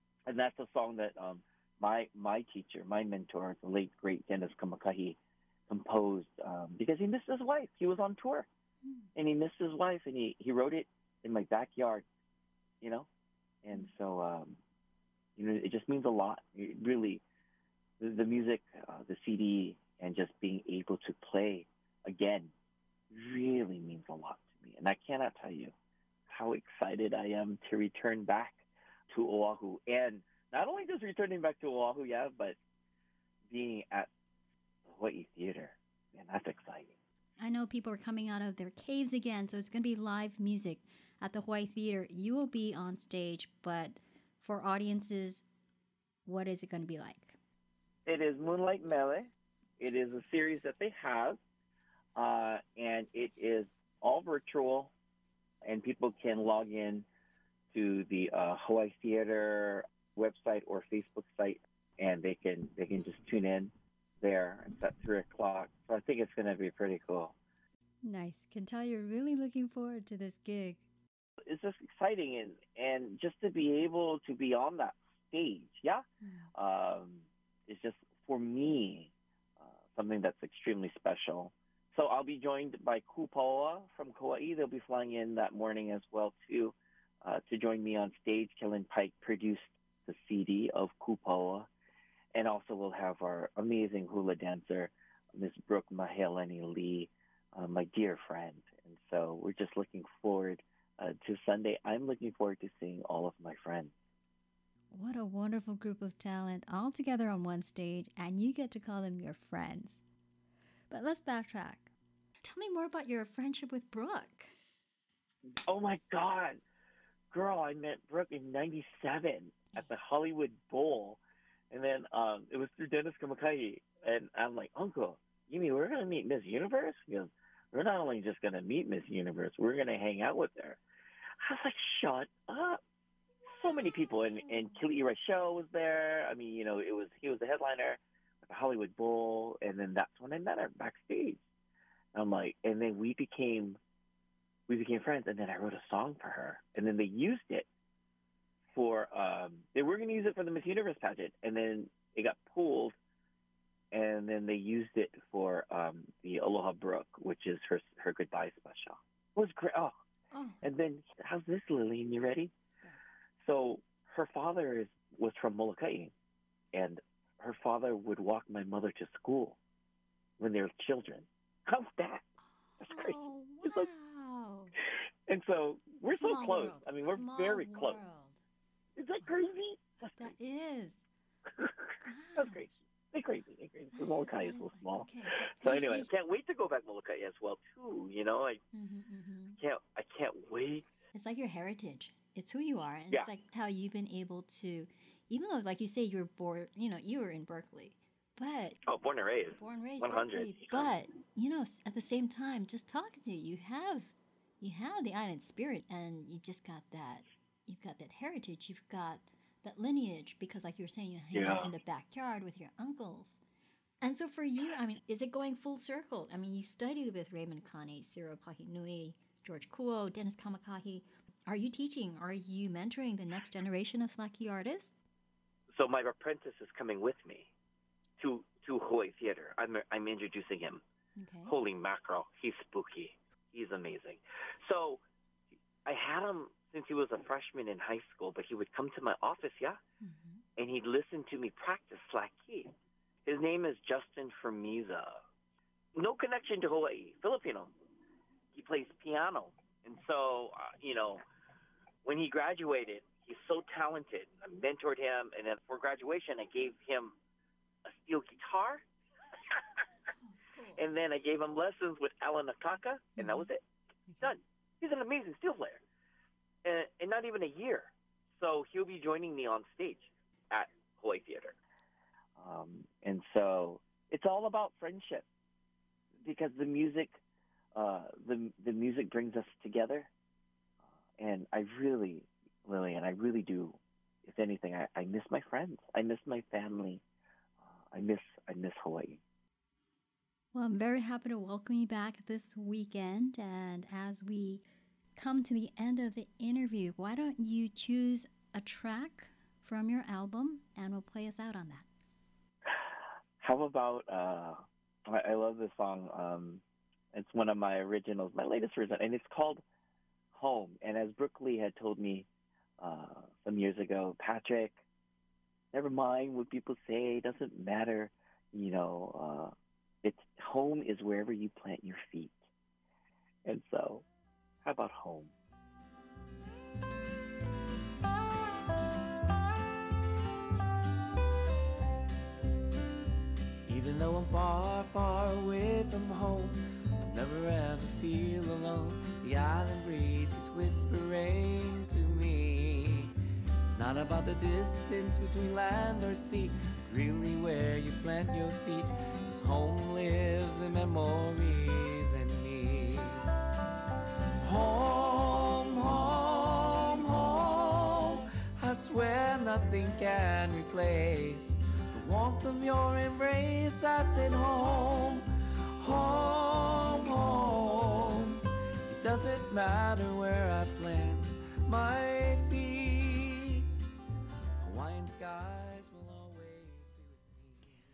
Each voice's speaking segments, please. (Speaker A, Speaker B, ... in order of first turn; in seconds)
Speaker A: 0.3-5.2, 5.7-8.5, 9.2-12.1, 12.8-13.1, 13.6-14.6, 15.4-17.2, 18.0-22.5, 23.1-25.7, 26.3-32.6, 33.5-34.1, 34.9-37.0, 48.1-51.4, 52.2-54.9, 55.6-57.0, 57.7-67.3, 71.5-91.7, 92.3-103.9, 115.7-116.6, 117.3-121.2, 121.7-130.8, 131.4-132.8, 133.5-141.4, 142.1-143.8, 144.7-147.7, 148.7-152.9, 153.9-159.9, 160.6-162.5, 163.4-166.1, 166.7-169.6, 170.4-172.2, 172.8-173.9, 175.3-178.0, 179.0-180.4, 182.4-188.6, 189.6-190.9, 198.8-200.9, 211.3-211.7, 225.7-227.5, 228.2-230.8, 231.4-235.0, 235.8-239.8, 240.6-242.7, 243.3-245.2, 245.9-247.7, 248.5-251.2, 252.1-257.1, 257.9-258.8, 260.8-263.6, 264.2-265.8, 266.6-271.6, 272.4-275.2, 276.2-277.2, 277.8-280.1, 281.2-287.0, 287.9-289.2, 303.4-306.6, 307.1-309.6, 310.3-312.3, 312.8-314.8, 315.7-322.4, 323.4-324.1, 324.6-325.3
Speaker B: 37.4-45.4, 46.3-47.4, 68.0-70.8, 76.2-76.5, 104.9-110.0, 110.9-111.9, 112.4-114.5, 134.4-134.8, 160.3-160.6, 172.7-174.8, 176.1-178.4, 179.2-179.5, 180.1-181.0, 182.0-182.8, 183.9-186.1, 188.7-189.6, 191.1-198.8, 199.5-213.4, 214.0-224.9, 231.2-231.6, 240.0-240.4, 260.5-260.8, 263.2-263.5, 264.1-264.4, 290.5-294.6, 295.2-301.9
Speaker C: 333.7-343.1, 343.6-353.3, 354.4-373.7, 374.6-377.9